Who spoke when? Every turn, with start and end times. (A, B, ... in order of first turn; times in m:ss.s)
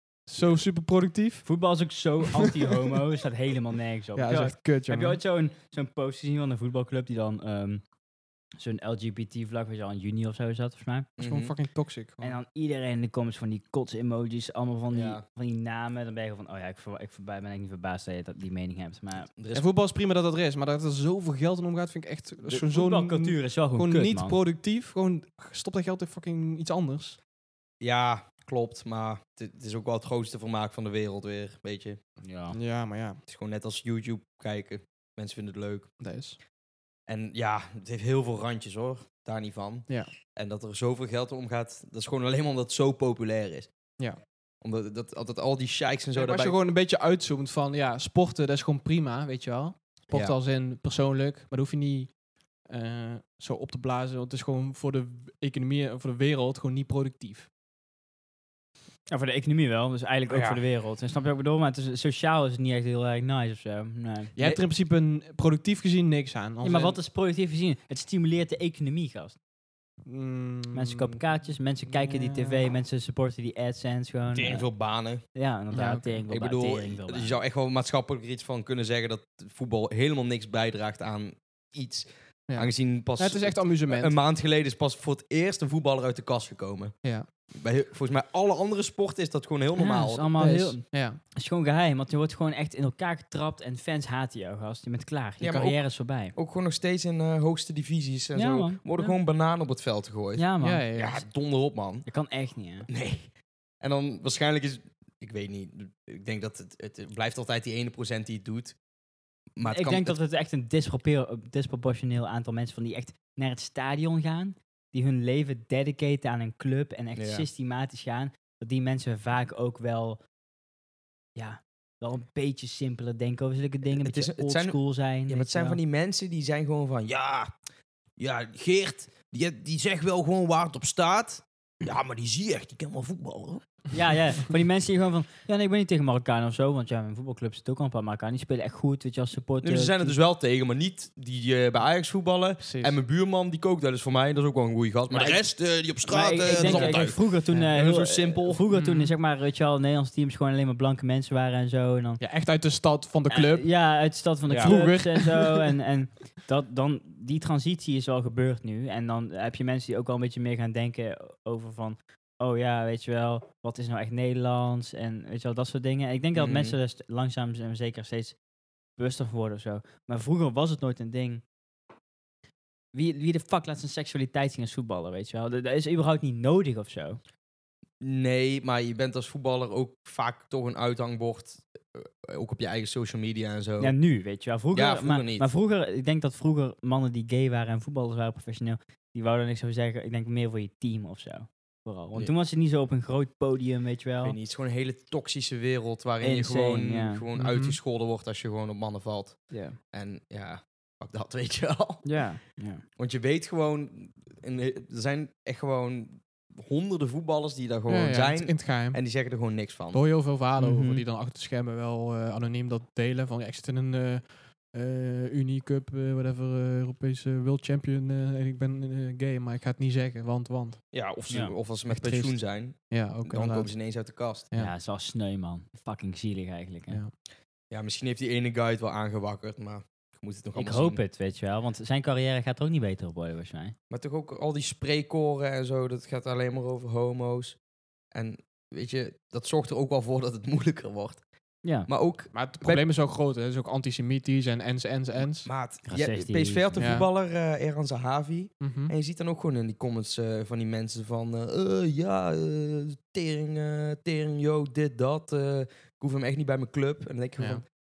0:00.2-0:01.5 A
0:01.4-0:07.8 B
0:04.2-0:05.2 A
0:08.6-0:11.1 B
0:11.2-0:11.5 C
0:11.2-0:12.4 A
0:12.2-0:19.3 B
0:14.9-0:15.2 C
0:19.3-0:19.6 C
0:19.5-0:27.2 A
0:22.4-0:24.4 B
0:27.8-0:32.0 C
0:32.2-0:32.6 B
0:32.5-0:33.2 A
0:33.3-0:35.9 C
0:36.0-0:36.4 A
0:37.1-0:43.7 C
0:44.6-0:46.6 C
0:46.2-0:52.1 A
0:52.7-0:57.5 A
0:59.1-1:04.3 B
1:00.3-1:00.6 C
1:04.4-1:07.0 A
1:06.6-1:09.4 B
1:10.0-1:11.2 A
1:10.7-1:14.7 B
1:11.9-1:12.6 A
1:14.3-1:15.2 C
1:15.3-1:17.3 B
1:15.7-1:16.2 A
1:16.3-1:26.9 C
1:22.5-1:24.1 A
1:27.5-1:30.3 C
1:29.8-1:36.3 B
1:30.4-1:31.2 A
1:35.4-1:35.8 C
1:36.3-1:42.0 C
1:38.3-1:39.2 B
1:40.4-1:40.8 B
1:40.6-1:41.2 A
1:42.0-1:42.9 B
1:42.9-1:48.8 C
1:49.6-1:50.2 C
1:49.6-2:00.2 B
1:57.2-1:57.4 C
2:01.4-2:05.8 B
2:03.9-2:07.5 C
2:08.2-2:13.6 C
2:13.9-2:20.2 B
2:19.6-2:28.6 C
2:22.6-2:23.0 A
2:25.1-2:25.4 B
2:26.0-2:32.2 B
2:26.5-2:27.0 A
2:28.7-2:29.1 A
2:32.2-2:33.8 A
2:33.3-2:48.4 B
2:34.5-2:34.8 C
2:34.6-2:35.7 A
2:46.3-2:46.8 C
2:49.0-2:51.4 B
2:52.9-2:57.2 B
2:58.0-3:04.0 C
3:03.8-3:14.4 B
3:04.7-3:05.5 C
3:14.2-3:22.1 C
3:16.2-3:17.2 B
3:17.4-3:17.8 A
3:19.5-3:19.8 B
3:22.0-3:22.8 B
3:23.0-3:30.0 C
3:27.9-3:29.0 A
3:29.9-3:40.8 A
3:30.6-3:31.0 B
3:40.9-3:44.5 C
3:41.3-3:41.5 B
3:41.9-3:43.7 A
3:44.5-3:47.0 B
3:47.7-3:51.0 C
3:50.5-3:53.7 B
3:53.9-3:57.6 C
3:58.1-4:01.2 C
4:01.6-4:01.9 B
4:01.8-4:02.8 C
4:02.3-4:05.5 A
4:05.4-4:17.6 C
4:05.9-4:06.9 B
4:06.8-4:07.1 A
4:08.6-4:08.9 A
4:17.4-4:17.6 A